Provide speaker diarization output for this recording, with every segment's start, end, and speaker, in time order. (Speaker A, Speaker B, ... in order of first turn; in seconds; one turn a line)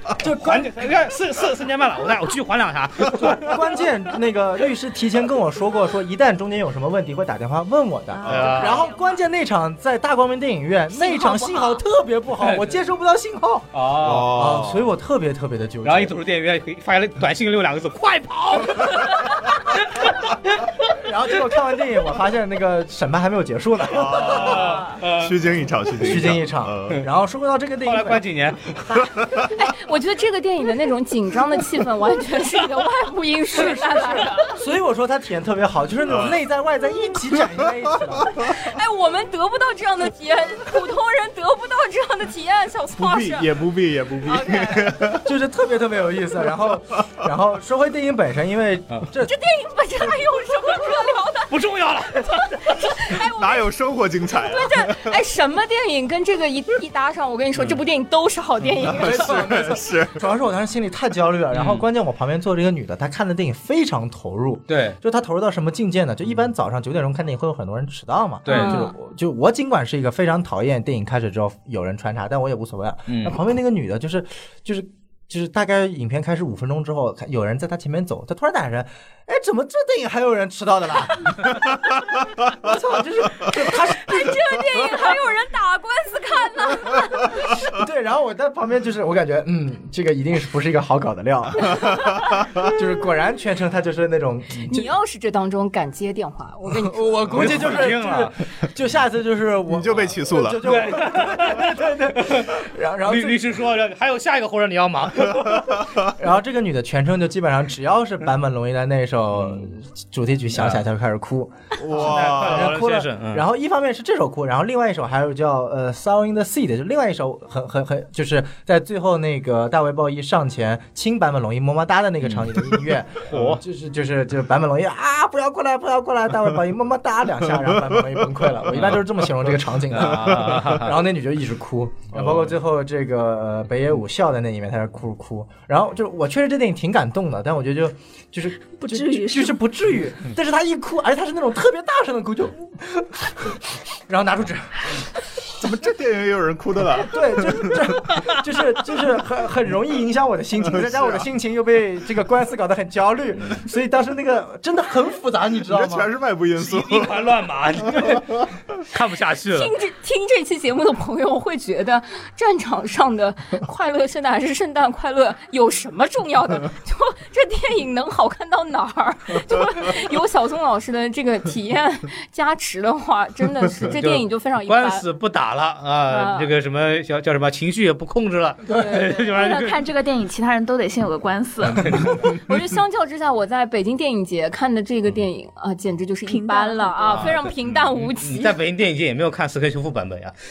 Speaker A: 0.1-0.7
Speaker B: 0.2-3.7
Speaker A: 3.3-16.1
Speaker C: 8.1-9.2
Speaker B: 8.3-8.9
Speaker C: 10.9-11.8
Speaker B: 12.4-12.7
Speaker B: 13.7-14.5
Speaker D: 14.0-14.9
Speaker B: 15.8-20.7
Speaker A: 20.9-24.6
Speaker D: 23.9-27.0
Speaker B: 24.3-25.4
Speaker B: 26.0-26.3
Speaker A: 26.0-28.2
Speaker B: 27.8-28.9
Speaker E: 29.5-34.5
Speaker B: 33.7-34.2
Speaker A: 34.5-38.3
Speaker D: 36.1-36.4
Speaker E: 38.4-43.6
Speaker D: 43.0-45.2
Speaker A: 44.3-49.3
Speaker E: 49.2-51.5
Speaker B: 51.5-53.2
Speaker E: 52.4-53.7
Speaker D: 53.2-55.2
Speaker E: 54.3-59.3
Speaker D: 58.8-60.2
Speaker A: 58.9-81.7
Speaker B: 61.5-61.9
Speaker B: 64.7-65.0
Speaker B: 68.5-68.9
Speaker E: 68.5-68.9
Speaker B: 73.1-73.4
Speaker A: 82.5-84.6
Speaker E: 83.9-87.6
Speaker A: 87.7-94.9
Speaker E: 94.7-97.3
Speaker A: 96.7-103.6
Speaker B: 97.3-98.4
Speaker D: 99.7-100.8
Speaker B: 100.6-105.8
Speaker A: 106.1-145.0
Speaker D: 111.8-112.8
Speaker B: 111.9-113.4
Speaker B: 122.2-122.6
Speaker B: 123.3-123.6
Speaker B: 129.9-131.0
Speaker D: 130.3-130.6
Speaker D: 132.1-132.5
Speaker C: 138.8-139.6
Speaker D: 145.6-148.0
Speaker A: 146.9-156.1
Speaker D: 150.6-151.3
Speaker D: 155.6-157.3
Speaker B: 156.6-159.7
Speaker E: 159.5-175.1
Speaker B: 173.9-179.8
Speaker E: 176.1-176.5
Speaker E: 178.7-179.3
Speaker C: 179.3-182.1
Speaker B: 181.7-182.3
Speaker E: 182.3-188.6
Speaker C: 186.3-187.4
Speaker B: 187.1-190.3